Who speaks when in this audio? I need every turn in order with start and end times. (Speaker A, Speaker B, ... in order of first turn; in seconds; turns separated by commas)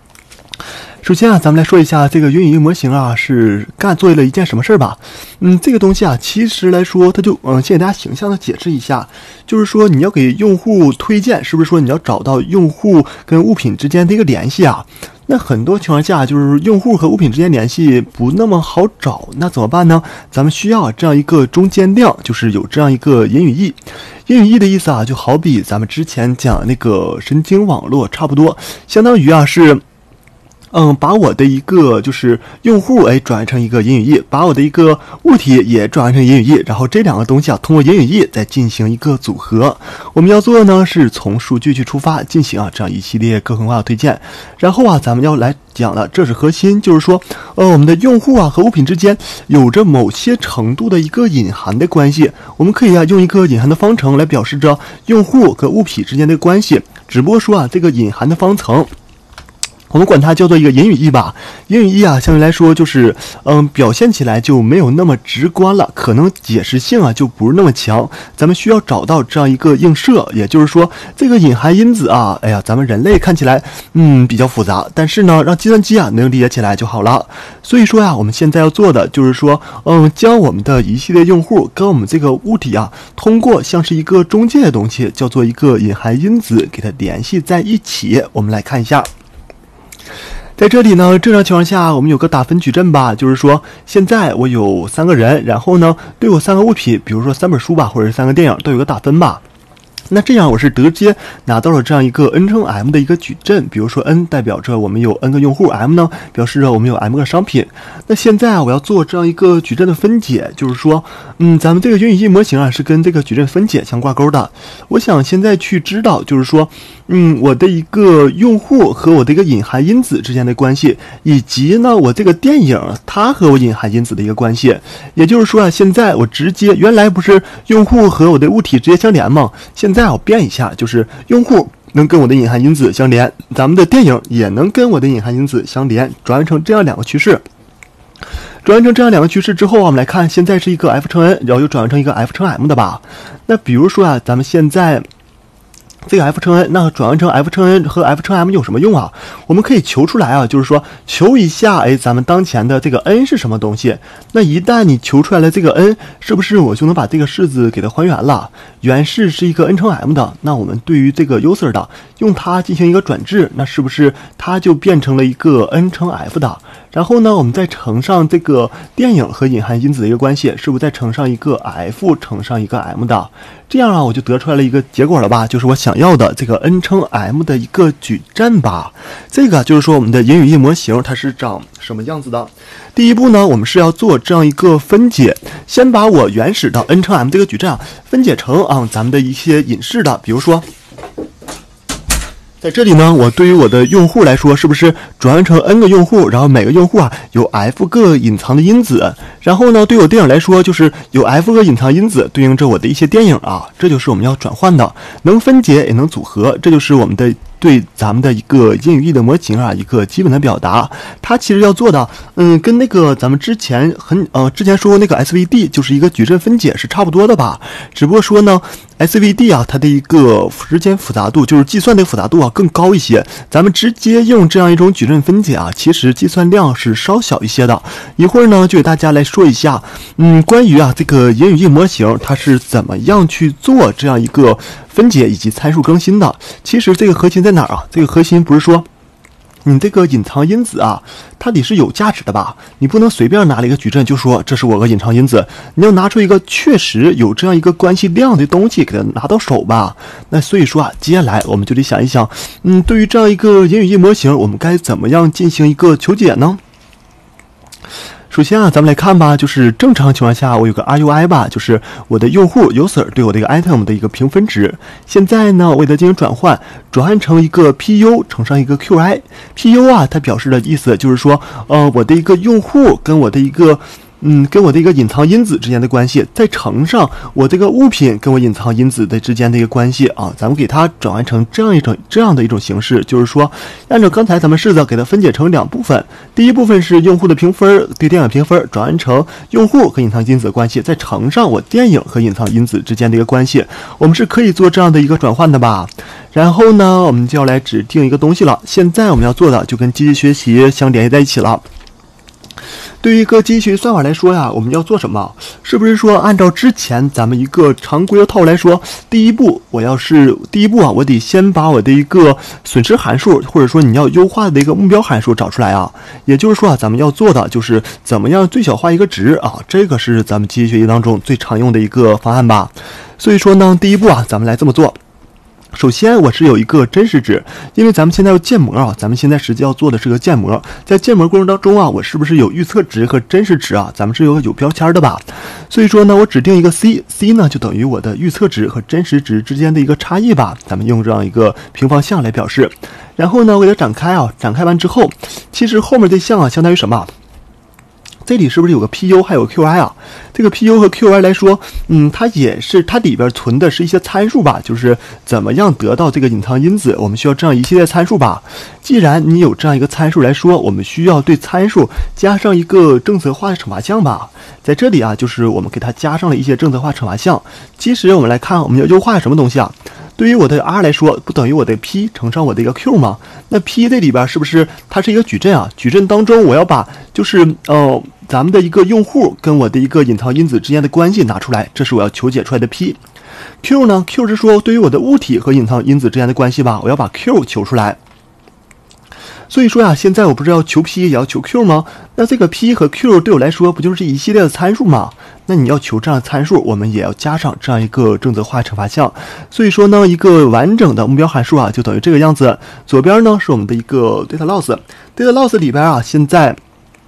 Speaker A: 1.0-29.8, Speaker A: 30.7-58.9, Speaker A: 59.9-89.1, Speaker A: 90.6-99.4, Speaker A: 100.1-137.4, Speaker A: 138.6-145.0, Speaker A: 146.1-190.7, Speaker A: 192.6-238.8, Speaker A: 239.6-256.6, Speaker A: 258.3-301.6, Speaker A: 303.0-325.0, Speaker A: 325.7-347.1, Speaker A: 348.2-383.0, Speaker A: 383.6-388.0, Speaker A: 389.5-406.6